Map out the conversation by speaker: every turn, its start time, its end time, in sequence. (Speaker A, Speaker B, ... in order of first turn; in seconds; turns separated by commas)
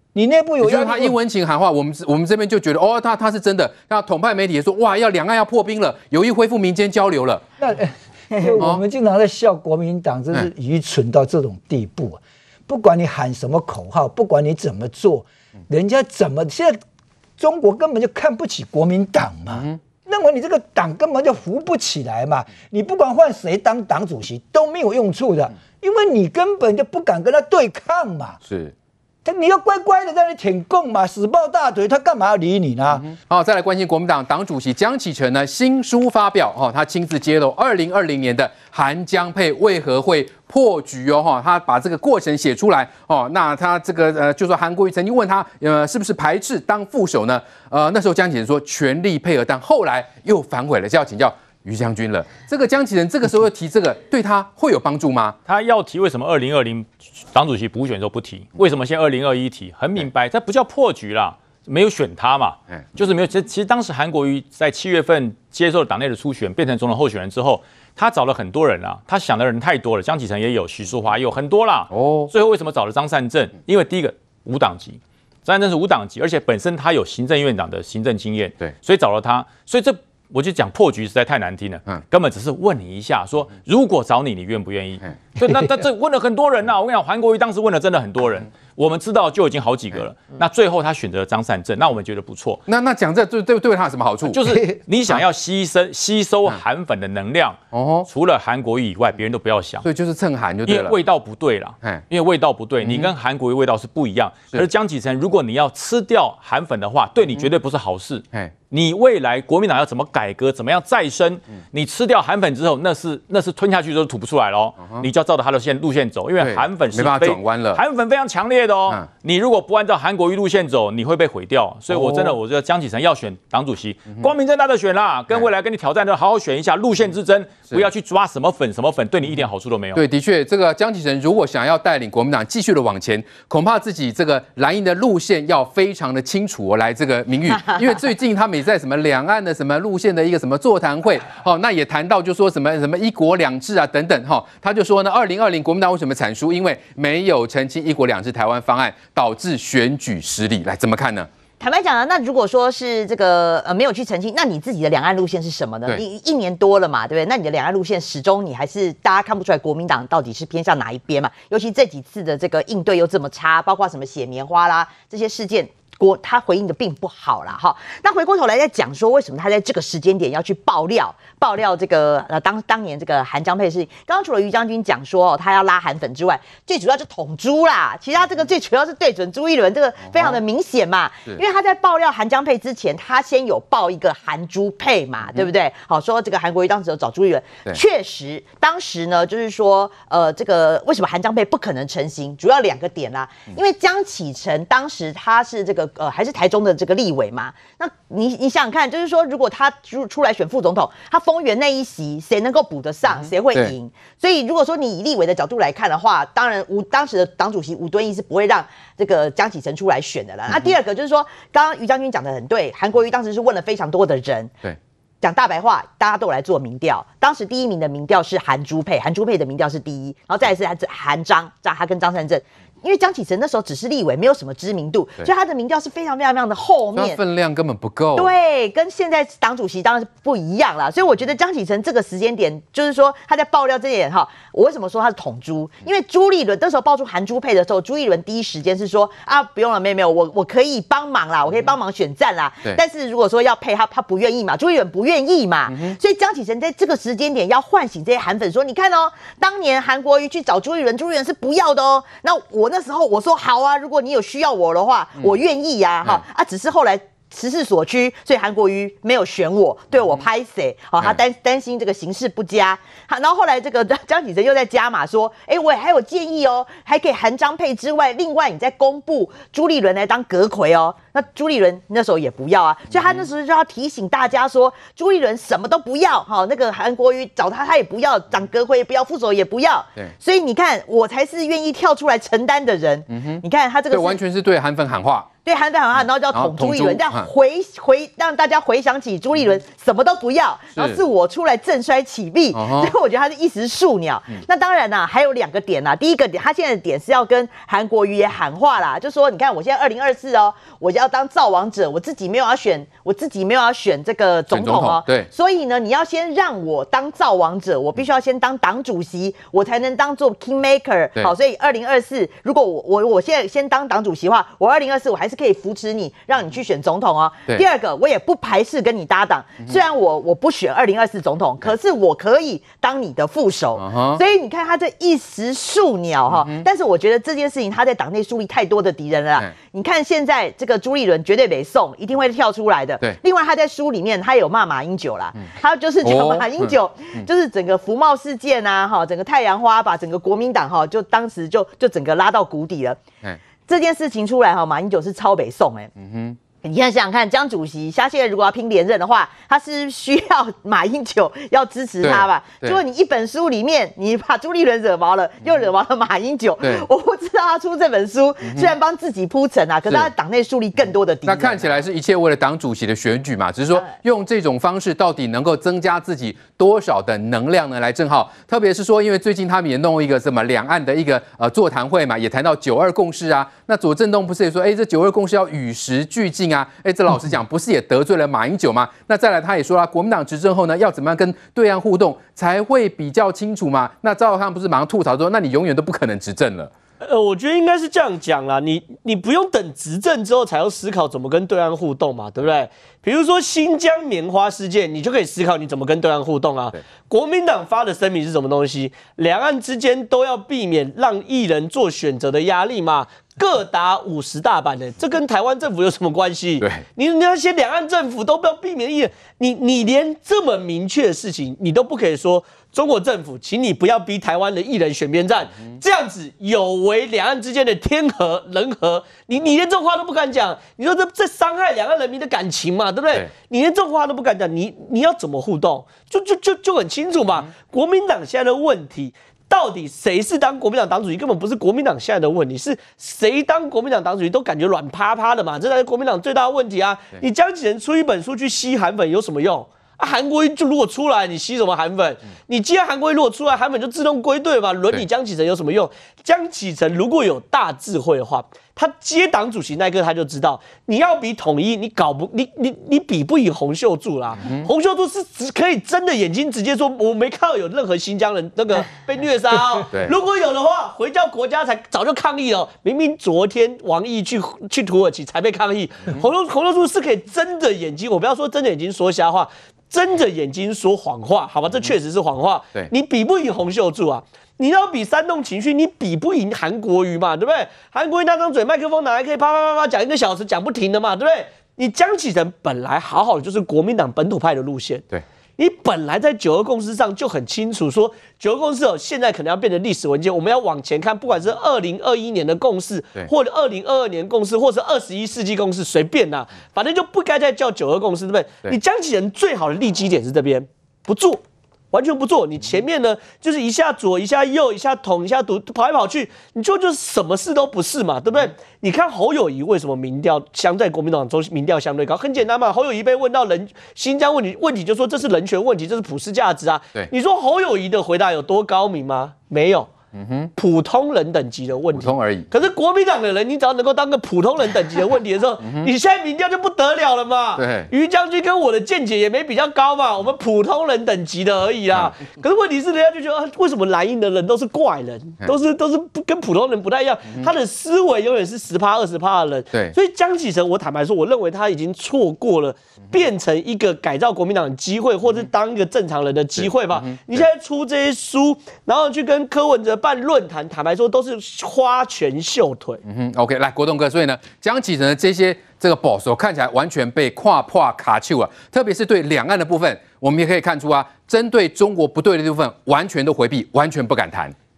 Speaker A: 0.1-1.2, Speaker B: 0.6-7.4, Speaker A: 7.6-16.8, Speaker A: 17.4-28.4, Speaker B: 28.5-28.7, Speaker A: 29.2-33.1, Speaker B: 32.9-55.4, Speaker C: 55.5-92.6, Speaker B: 71.9-72.3, Speaker B: 92.7-94.4, Speaker C: 94.3-99.8, Speaker B: 97.7-98.1, Speaker B: 99.8-101.0, Speaker C: 100.7-130.0, Speaker B: 102.8-103.1, Speaker B: 116.4-117.8, Speaker B: 121.9-122.4, Speaker B: 129.9-151.3, Speaker D: 151.6-227.2, Speaker B: 180.1-180.4, Speaker B: 226.9-228.3, Speaker D: 228.2-284.2, Speaker B: 283.1-285.3, Speaker D: 285.4-343.0, Speaker B: 286.3-287.3, Speaker B: 290.8-291.0, Speaker B: 292.5-292.9, Speaker B: 304.5-305.3, Speaker B: 323.8-324.2, Speaker B: 326.3-326.7, Speaker B: 336.0-337.3, Speaker D: 343.7-345.9, Speaker B: 346.0-346.4, Speaker D: 346.6-361.8, Speaker B: 352.0-352.8, Speaker B: 356.6-356.9, Speaker B: 358.4-358.7, Speaker B: 361.3-386.7, Speaker E: 387.0-519.9, Speaker B: 454.4-454.7, Speaker B: 520.1-520.5, Speaker E: 520.6-553.0, Speaker B: 521.9-522.5, Speaker B: 527.6-527.9, Speaker B: 546.6-547.4, Speaker B: 553.1-564.5